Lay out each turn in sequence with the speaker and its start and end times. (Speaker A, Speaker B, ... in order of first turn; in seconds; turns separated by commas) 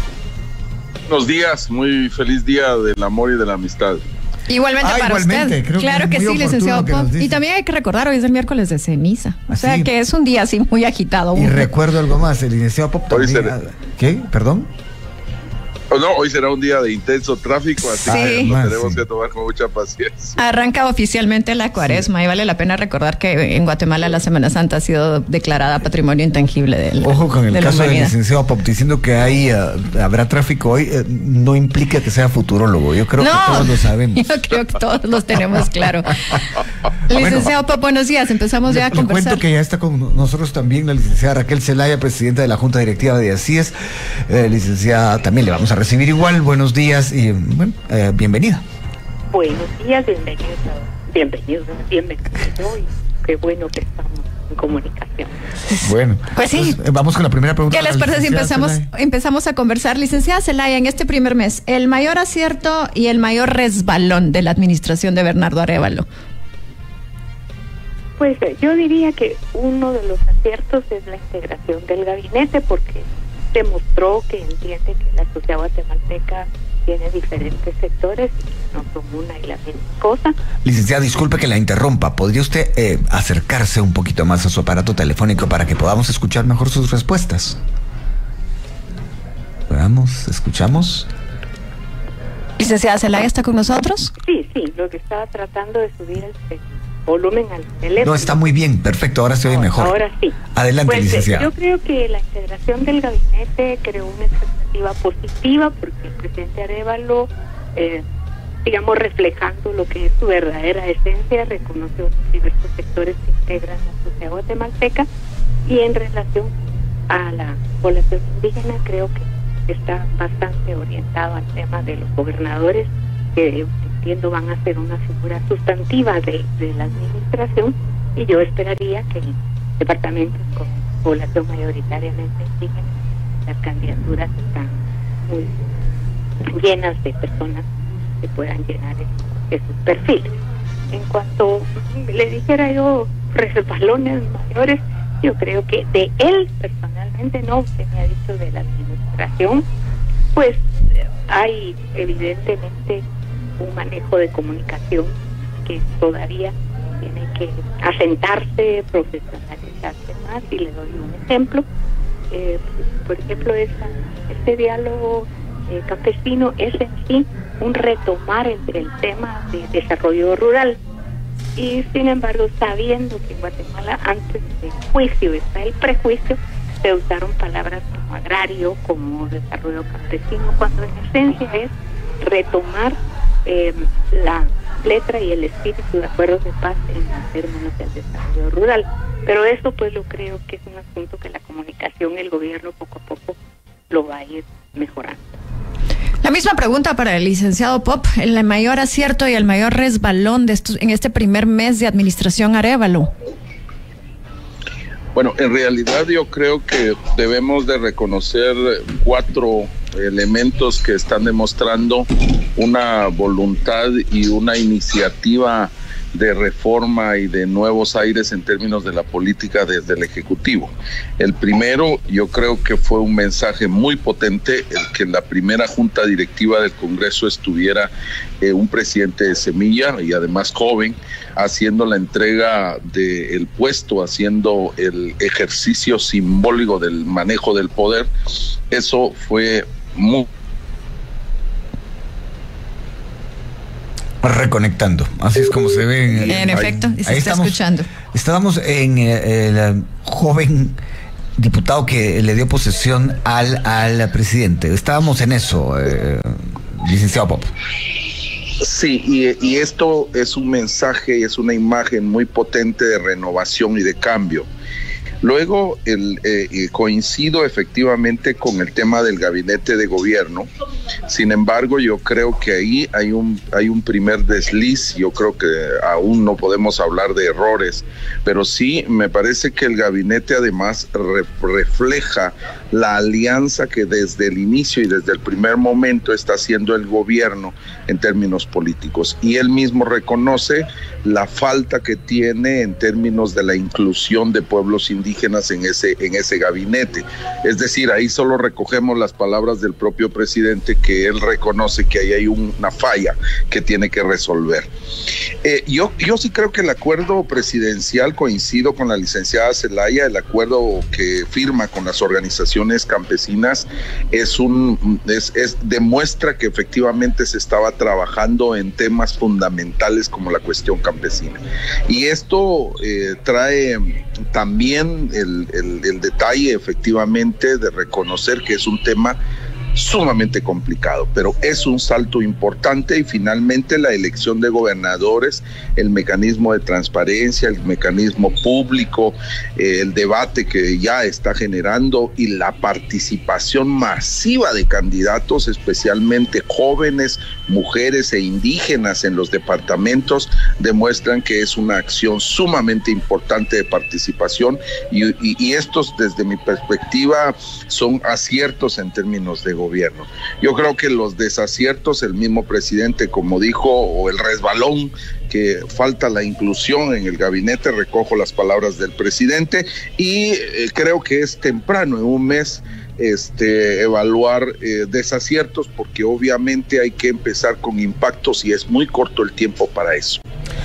Speaker A: 1.1-4.0, Speaker B: 4.5-11.7, Speaker C: 4.8-7.4, Speaker C: 9.5-9.9, Speaker C: 11.3-14.7, Speaker A: 13.1-13.5, Speaker A: 15.9-20.4, Speaker C: 18.1-19.0, Speaker B: 18.1-18.5, Speaker B: 20.4-28.1, Speaker C: 21.8-22.1, Speaker C: 27.0-34.3, Speaker B: 33.2-36.5, Speaker B: 37.1-39.4, Speaker C: 37.1-37.5, Speaker C: 38.6-43.7, Speaker C: 44.3-48.6, Speaker D: 49.3-55.4, Speaker B: 55.7-56.8, Speaker C: 55.8-58.9, Speaker B: 57.7-66.1, Speaker D: 68.2-80.3, Speaker C: 80.6-87.6, Speaker C: 89.7-91.1, Speaker B: 92.6-94.1, Speaker D: 94.2-98.5, Speaker C: 98.0-100.0, Speaker D: 99.4-108.0, Speaker C: 100.5-101.5, Speaker D: 108.6-115.1, Speaker D: 115.6-116.5, Speaker D: 117.1-135.5, Speaker D: 136.5-137.6, Speaker D: 138.2-140.4, Speaker D: 140.9-149.7, Speaker D: 150.3-150.6, Speaker D: 151.3-153.0, Speaker D: 153.6-155.1, Speaker D: 155.6-161.6, Speaker D: 162.3-170.8, Speaker D: 171.6-193.3, Speaker D: 193.9-195.3, Speaker B: 196.2-203.1, Speaker A: 205.1-227.9, Speaker A: 228.4-238.1, Speaker A: 238.7-240.2, Speaker C: 244.2-247.6, Speaker B: 246.3-247.9, Speaker A: 246.3-246.9, Speaker C: 248.1-250.8, Speaker C: 251.4-257.5, Speaker A: 258.6-264.5, Speaker A: 265.2-270.5, Speaker A: 271.1-304.7, Speaker A: 305.4-329.2, Speaker A: 329.7-380.2